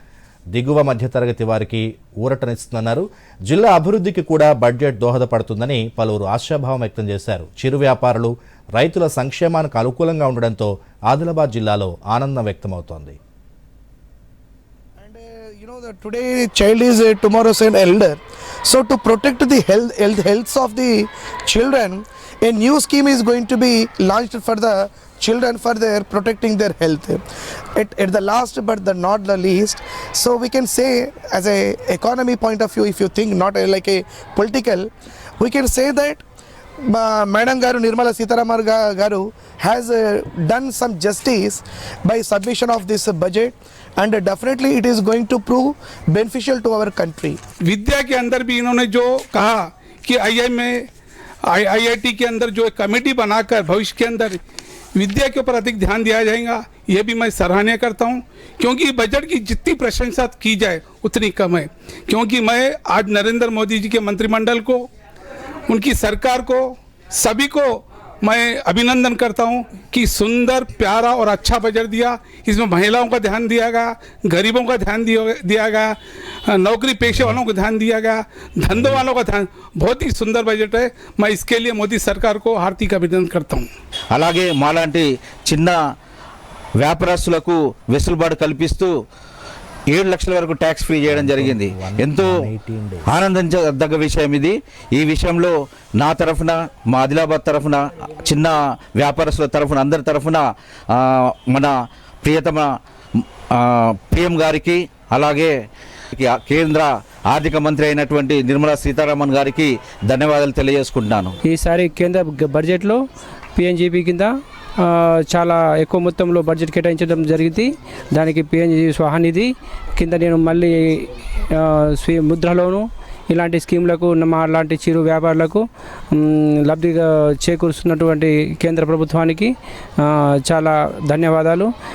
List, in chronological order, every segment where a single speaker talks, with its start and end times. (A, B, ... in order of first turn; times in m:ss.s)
0:00.5-0:13.2 A
0:15.0-0:27.2 B
0:27.8-0:36.2 B
0:36.9-0:47.4 B
0:47.7-0:50.9 C
0:51.5-0:54.4 C
0:55.0-1:04.8 C
1:05.7-1:15.9 C
1:16.5-1:23.7 C
1:17.0-1:17.4 A
1:24.1-1:25.8 D
1:26.8-1:28.9 D
1:29.9-1:32.3 D
1:31.1-1:33.1 A
1:33.1-1:41.7 D
1:42.2-1:45.5 D
1:46.1-1:51.3 D
1:51.4-1:53.0 E
1:53.6-1:54.3 E
1:54.8-2:11.7 E